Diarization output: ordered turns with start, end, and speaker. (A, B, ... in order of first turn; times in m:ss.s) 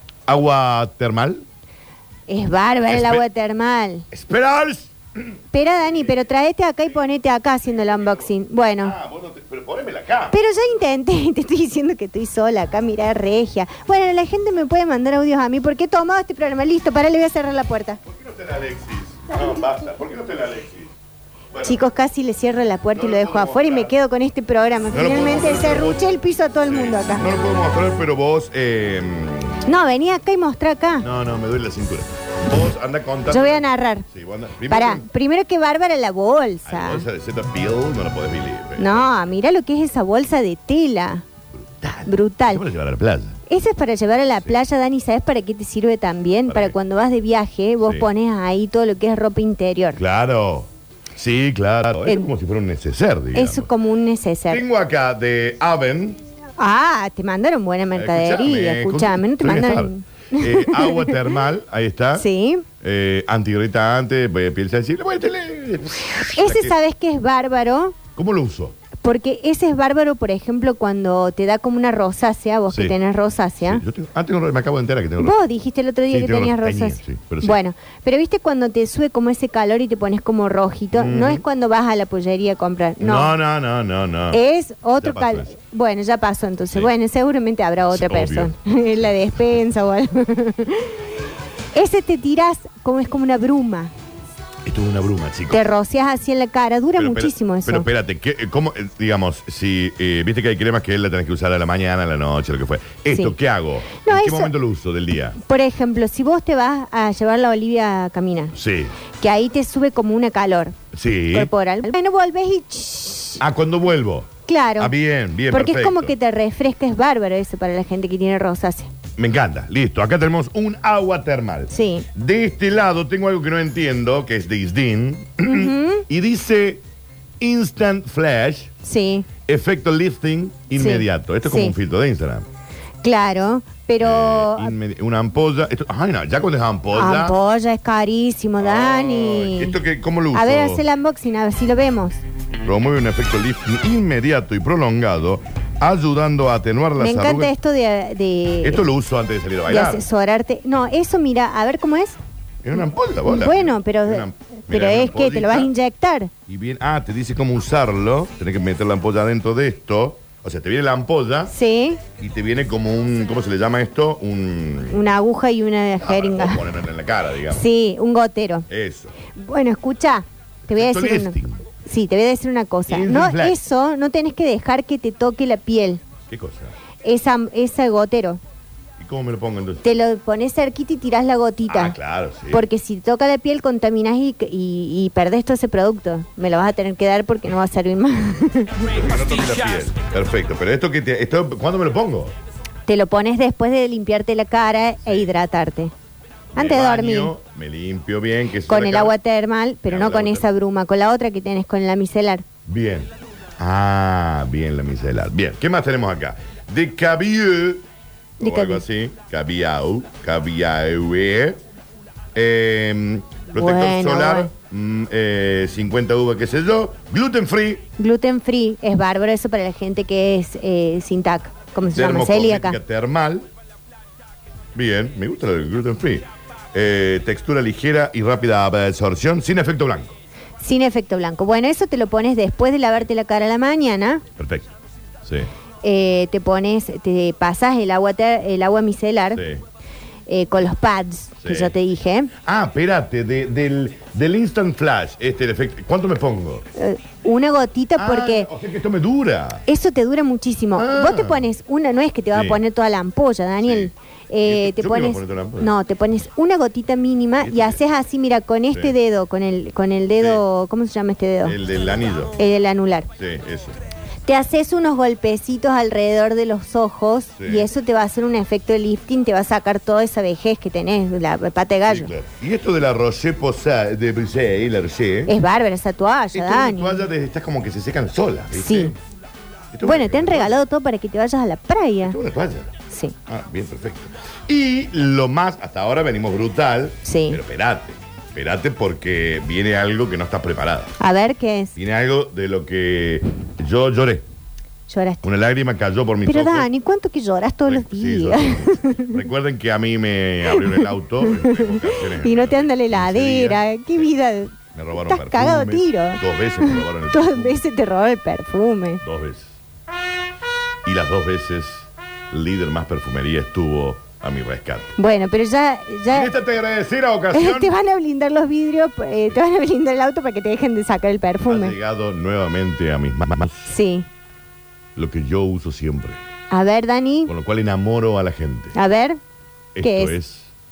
0:00.3-0:01.4 A
0:02.3-0:04.1 B
0:02.9-0:03.2 A
0:04.1-0:05.4 A
0:05.5-0:09.0 B
0:05.9-0:06.1 A
0:07.7-0:08.3 A
0:08.8-0:10.4 A
0:10.3-0:18.0 B
0:18.0-0:20.9 A
0:21.5-0:21.8 A
0:21.6-0:27.3 B
0:22.9-0:23.9 A
0:24.9-0:26.0 A
0:26.6-0:29.6 A
0:29.7-0:31.1 B
0:31.0-0:35.1 A
0:33.3-0:34.1 B
0:34.7-0:37.1 B
0:36.6-0:39.1 A
0:38.8-0:41.2 B
0:41.5-0:43.4 A
0:42.1-0:42.6 B
0:43.5-0:50.0 B
0:46.5-0:46.8 A
0:47.8-0:48.1 A
0:50.0-0:53.7 A
0:53.3-0:54.6 B
0:54.5-0:56.2 A
0:56.6-1:01.2 B
0:57.9-1:02.3 A
1:02.2-1:02.7 B
1:02.8-1:06.7 A
1:06.4-1:08.0 B
1:08.2-1:08.8 A
1:09.0-1:13.8 B
1:12.7-1:13.0 A
1:13.6-1:15.4 A
1:15.2-1:23.3 B
1:16.1-1:17.6 A
1:20.9-1:21.4 A
1:23.0-1:24.4 A
1:24.3-1:31.0 B
1:25.0-1:25.5 A
1:27.9-1:28.6 A
1:31.8-1:33.9 B
1:34.6-1:35.6 A
1:35.5-1:37.9 B
1:37.0-1:45.4 A
1:44.0-1:44.5 B
1:45.4-1:48.6 B
1:48.5-1:48.9 A
1:49.2-1:50.8 B
1:50.9-1:51.5 A
1:51.3-1:53.4 B
1:53.4-1:56.1 A
1:54.5-1:54.9 B
1:55.5-1:58.9 B
1:59.2-2:06.8 A
2:01.7-2:02.1 B
2:05.5-2:06.0 B
2:07.4-2:08.7 A
2:08.8-2:09.3 B
2:09.5-2:12.5 A
2:10.8-2:11.8 B
2:13.0-2:14.7 B
2:14.0-2:17.4 A
2:16.9-2:19.8 B
2:18.6-2:20.8 A
2:20.3-2:22.2 B
2:22.6-2:27.5 A
2:27.0-2:28.8 B
2:28.6-2:30.0 A
2:29.7-2:32.2 B
2:32.6-2:35.7 A
2:33.3-2:36.3 B
2:36.5-2:41.5 A
2:41.5-2:42.0 B
2:42.2-2:45.0 A
2:44.9-2:46.6 B
2:46.0-2:47.7 A
2:47.5-2:48.7 B
2:48.7-2:49.1 A
2:49.4-2:56.0 B
2:50.7-2:51.6 A
2:52.9-2:53.6 A
2:56.3-2:56.7 A
2:57.0-2:58.4 B
2:59.0-2:59.8 A
2:59.8-3:02.0 B
3:01.7-3:02.7 A
3:02.5-3:08.9 B
3:08.9-3:12.3 A
3:12.9-3:15.9 B
3:16.5-3:19.2 A
3:16.6-3:17.3 B
3:18.7-3:22.4 B
3:19.9-3:20.5 A
3:22.7-3:27.8 A
3:28.4-3:31.6 A
3:28.4-3:28.8 B
3:32.4-3:37.9 A
3:33.6-3:34.5 B
3:38.0-3:42.8 B
3:41.9-3:43.5 A
3:44.7-3:50.2 A
3:50.6-3:54.2 B
3:54.4-3:54.7 A
3:55.2-3:55.5 A
3:55.8-3:59.4 B
3:59.3-3:59.6 A
4:00.3-4:02.3 B
4:01.4-4:01.7 A
4:02.4-4:06.6 A
4:06.8-4:08.5 B
4:08.0-4:09.6 A
4:09.7-4:21.6 B
4:10.8-4:11.5 A
4:12.3-4:12.6 A
4:13.6-4:15.7 A
4:17.4-4:17.8 A
4:21.4-4:22.4 A
4:22.4-4:23.1 B
4:23.2-4:23.8 A
4:24.3-4:32.1 B
4:27.4-4:27.7 A
4:31.9-4:35.3 A
4:35.3-4:37.0 B
4:36.3-4:39.0 A
4:38.6-4:38.9 B
4:39.7-4:40.6 A
4:39.8-4:42.2 B
4:42.0-4:42.7 A
4:42.9-4:43.2 B
4:43.3-4:51.0 A
4:47.0-4:47.4 B
4:51.0-4:51.7 B
4:51.8-4:54.3 A
4:54.9-4:55.2 B
4:55.2-4:56.7 A
4:56.2-4:59.1 B
4:57.7-5:04.0 A
5:00.5-5:09.0 B
5:04.7-5:07.6 A
5:09.0-5:09.6 A
5:10.8-5:14.9 A
5:15.0-5:16.3 B
5:16.1-5:17.7 A
5:17.3-5:21.8 B
5:21.5-5:23.7 A
5:23.7-5:24.1 B
5:25.0-5:26.2 A
5:26.5-5:27.3 B
5:27.3-5:28.8 A
5:28.8-5:29.2 B
5:29.8-5:30.5 A
5:29.8-5:30.2 B